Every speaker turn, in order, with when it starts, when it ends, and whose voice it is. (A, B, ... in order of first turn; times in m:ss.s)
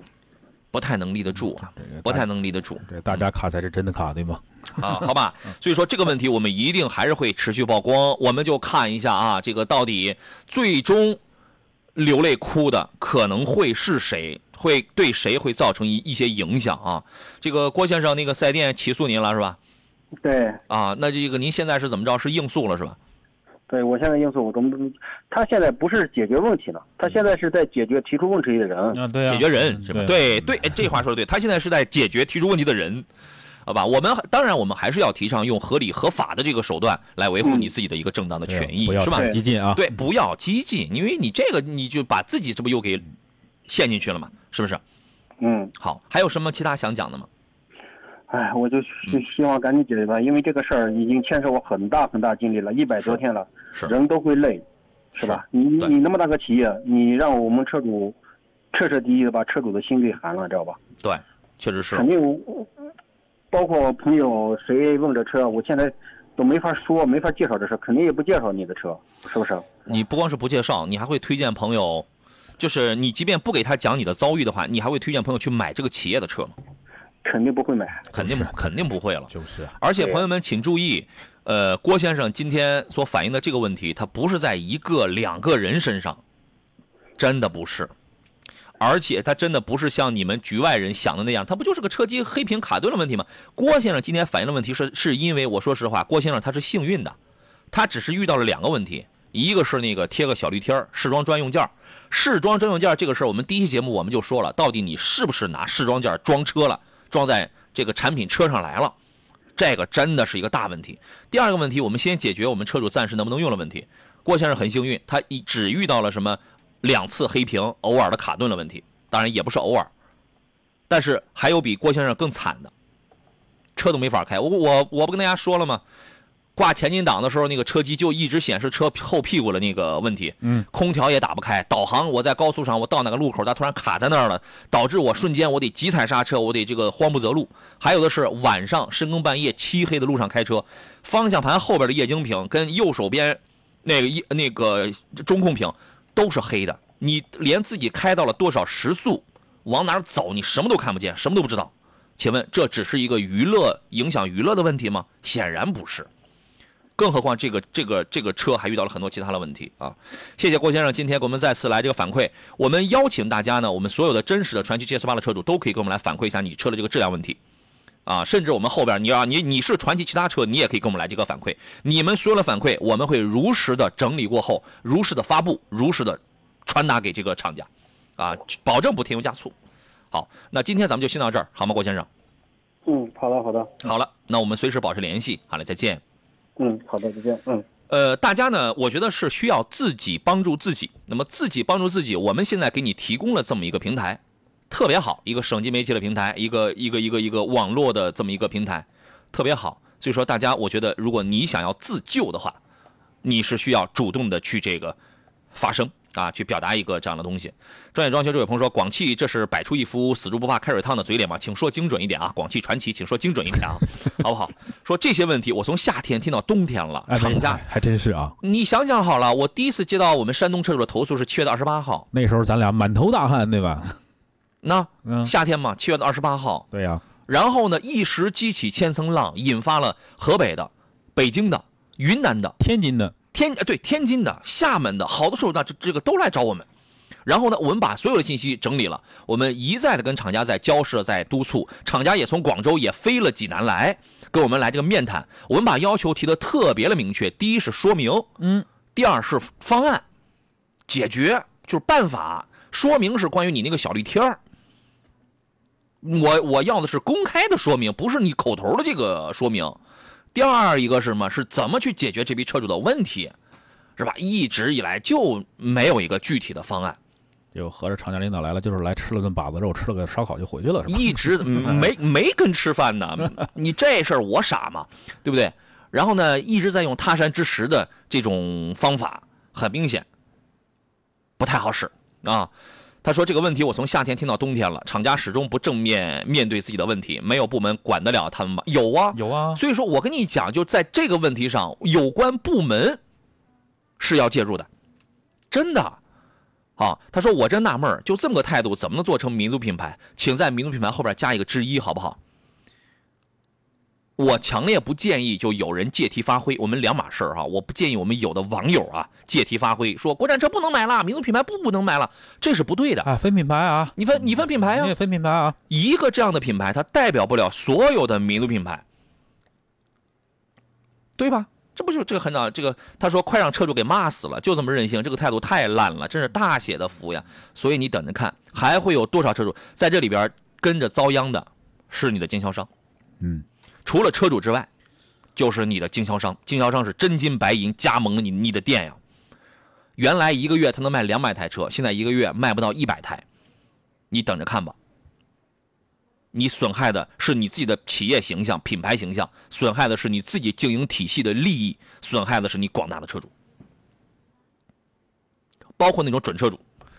0:00.7-0:03.2 A
0:01.7-0:02.3 B
0:02.8-0:04.8 B
0:04.8-0:11.2 A
0:12.0-0:19.6 A
0:20.2-0:20.6 C
0:20.7-0:23.0 A
0:23.7-0:29.0 C
0:28.9-0:30.2 B
0:29.3-0:33.1 A
0:33.7-0:43.0 A
0:37.4-0:37.7 C
0:38.5-0:39.9 B
0:43.7-0:44.8 A
0:45.4-0:45.7 C
0:45.8-0:47.3 A
0:48.3-0:54.6 C
0:55.2-0:58.2 C
0:55.2-0:55.9 A
0:58.7-1:00.8 C
1:01.0-1:02.1 A
1:01.9-1:02.7 C
1:03.5-1:09.8 C
1:09.9-1:12.1 A
1:12.6-1:16.5 A
1:17.2-1:18.1 C
1:18.1-1:19.8 B
1:18.1-1:26.2 A
1:27.2-1:27.9 A
1:28.8-1:37.2 A
1:37.7-1:49.0 A
1:49.6-1:59.9 A
2:00.9-2:02.7 A
2:03.8-2:05.8 A
2:06.6-2:36.1 A
2:37.0-2:47.4 A
2:48.1-2:59.5 A
3:00.1-3:02.1 A
3:02.9-3:03.8 C
3:03.8-3:06.0 A
3:06.6-3:07.7 C
3:07.9-3:22.6 A
3:23.2-3:25.0 A
3:25.5-3:37.6 A
3:37.1-3:38.4 B
3:38.4-3:42.1 A
3:42.1-3:44.0 B
3:44.6-3:46.7 A
3:45.0-3:45.3 B
3:46.7-3:47.0 B
3:47.3-3:52.6 A
3:52.6-3:53.2 B
3:53.3-3:56.7 A
3:57.3-4:08.3 A
4:08.4-4:08.7 B
4:09.0-4:10.0 A
4:10.9-4:14.4 A
4:16.0-4:19.8 A
4:20.3-4:23.3 A
4:24.0-4:27.0 A
4:27.5-4:31.7 B
4:30.9-4:40.1 A
4:41.4-4:42.5 A
4:43.0-4:53.0 A
4:49.1-4:49.6 B
4:54.0-4:54.7 A
4:55.5-4:56.0 A
4:56.8-5:02.2 A
5:04.2-5:13.1 A
5:13.0-5:14.0 B
5:14.0-5:14.9 A
5:14.6-5:15.6 B
5:15.7-5:18.8 A
5:21.2-5:32.7 A
5:33.9-5:34.7 A
5:35.4-5:39.0 A
5:40.0-5:43.2 A
5:44.1-5:44.8 A
5:46.3-5:53.3 A
5:55.8-5:56.6 A